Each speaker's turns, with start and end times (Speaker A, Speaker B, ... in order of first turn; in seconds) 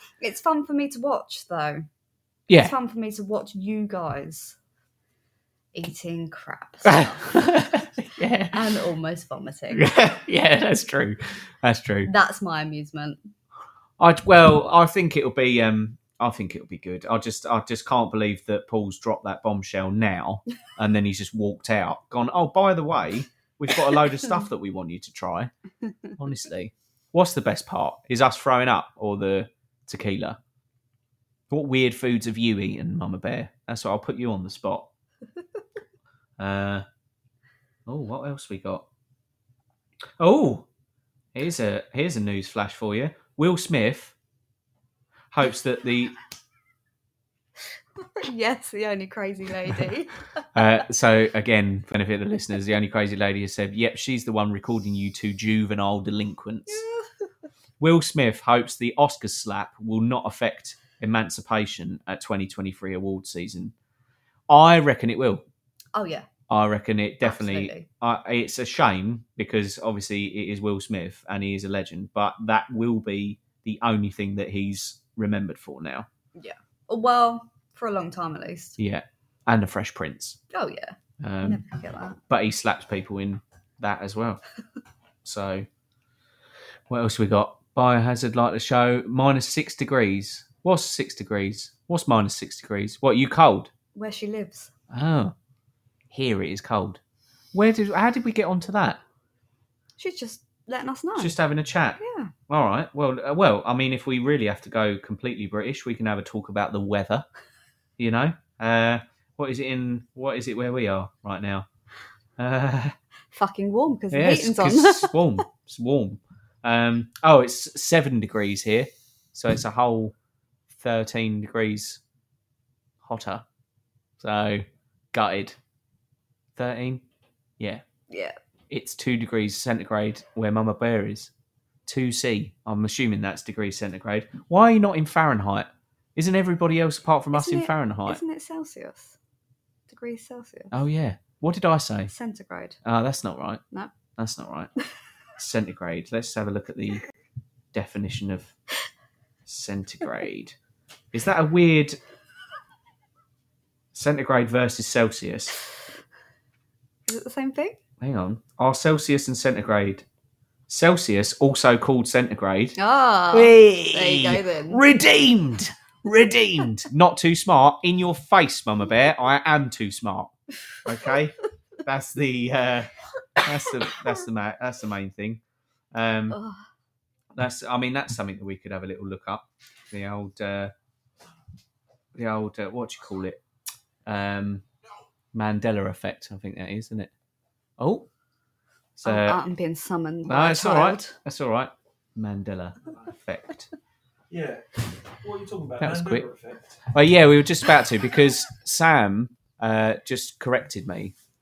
Speaker A: 0.2-1.8, 2.5-4.5, 5.7-7.7, 8.5-9.9, 12.0-13.2, 48.0-50.6, 56.7-57.3, 65.9-66.3, 67.2-67.9, 76.3-78.8, 80.5-82.2, 93.9-94.7, 100.0-101.4, 102.0-102.3, 113.3-115.2, 128.1-128.4, 137.3-139.2, 139.9-140.7, 142.1-142.8, 143.7-144.0, 157.1-157.8, 162.8-164.8, 176.3-176.6, 189.0-191.1
Speaker B: 2.5-2.7, 6.8-8.7, 9.7-12.1, 14.0-25.5, 26.2-30.4, 31.5-34.9, 36.4-36.8, 37.9-38.9, 40.2-40.6, 41.3-44.1, 45.3-46.1, 50.5-56.8, 57.8-63.7, 64.5-65.4, 66.5-76.1, 78.8-80.4, 81.2-81.6, 82.3-84.4, 85.2-85.7, 86.9-93.7, 94.9-95.3, 96.1-97.0, 97.5-99.0, 101.2-107.2, 108.0-111.7, 112.4-113.0, 114.1-120.1, 120.7-122.0, 123.0-123.4, 124.2-125.6, 126.5-127.0, 128.7-131.3, 131.8-138.2, 140.7-142.1, 142.8-143.6, 144.2-144.7, 145.4-147.0, 147.7-148.5, 149.4-150.6, 151.1-152.0, 153.9-155.6, 158.0-160.0, 160.7-162.8, 163.3-170.3, 170.8-175.4, 175.9-176.4, 177.3-180.7, 182.1-183.4, 184.1-184.6, 185.3-187.1, 187.8-188.1, 188.9-189.4, 190.2-193.7, 195.8-196.2, 196.9-201.1
Speaker C: 194.3-196.8